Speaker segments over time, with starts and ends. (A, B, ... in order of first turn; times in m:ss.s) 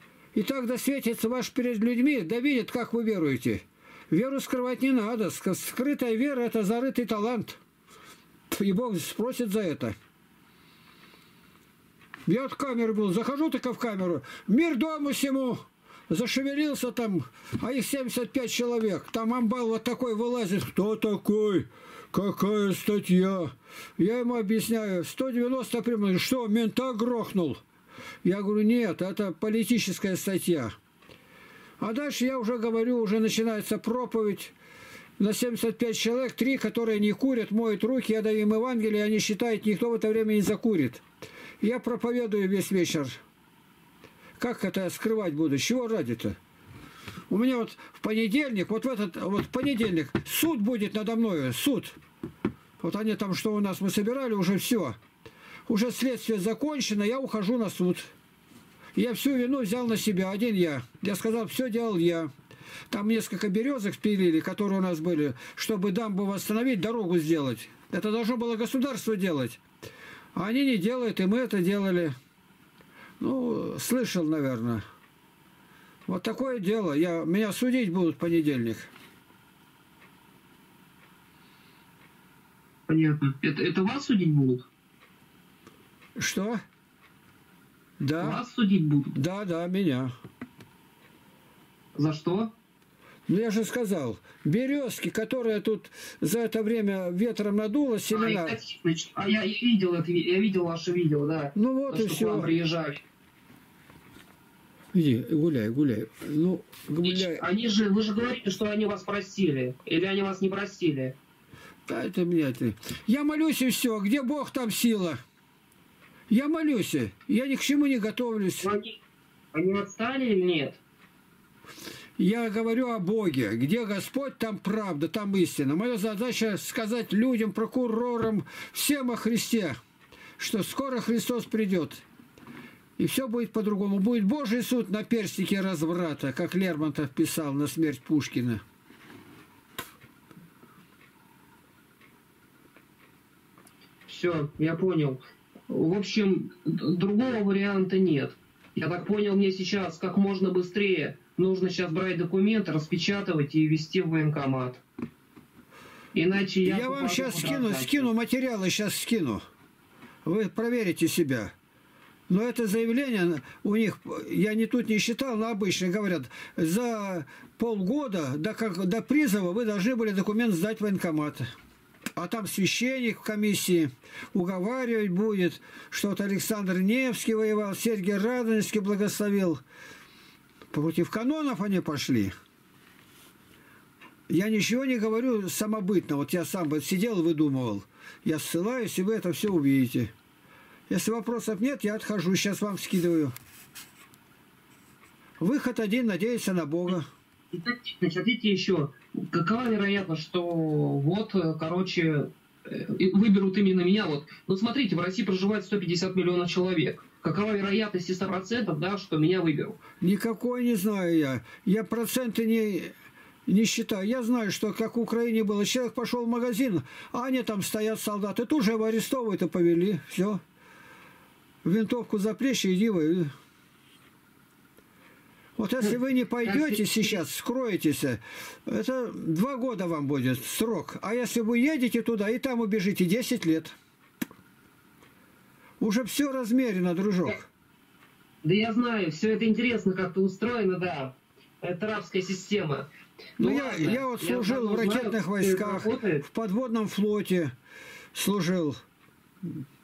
0:00.4-0:07.6 A
0:08.5-0:10.0 A
0:12.3-0:27.6 A
0:28.2-0:30.7 A
0:31.8-0:34.5 A
0:35.2-0:41.0 A
0:41.6-0:43.2 A
0:44.4-0:46.4 A
0:47.3-0:52.0 A
0:52.8-0:55.0 A
0:55.7-0:58.1 A
0:59.0-1:02.3 A
1:02.9-1:09.6 A
1:10.4-1:12.1 A
1:13.2-1:14.8 A
1:16.1-1:18.9 A
1:22.9-1:24.7 B
1:26.2-1:26.6 A
1:28.0-1:28.4 A
1:28.2-1:29.2 B
1:29.1-1:30.1 A
1:32.0-1:32.5 B
1:33.3-1:38.6 A
1:38.1-1:43.0 B
1:41.6-1:42.5 A
1:44.9-1:47.4 A
1:47.0-1:51.2 B
1:51.9-1:55.2 A
1:56.3-1:58.7 A
1:58.6-1:59.0 B
1:59.5-2:00.8 B
2:02.2-2:09.8 A
2:10.4-2:12.0 A
2:13.0-2:18.6 A
2:24.1-2:34.8 B
2:36.1-2:38.1 B
2:36.6-2:39.4 A
2:40.2-2:41.5 A
2:42.3-2:51.5 A
2:52.2-2:59.6 A
3:00.7-3:02.3 A
3:04.3-3:10.1 A
3:10.9-3:13.3 A
3:15.4-3:17.1 A
3:17.5-3:29.8 B
3:30.0-3:32.9 A
3:33.5-3:40.4 A
3:41.6-3:43.3 A
3:45.6-3:53.8 A
3:46.4-3:47.2 B
3:55.8-3:57.5 A
3:58.4-4:06.2 B
4:03.4-4:07.5 A
4:08.1-4:08.8 A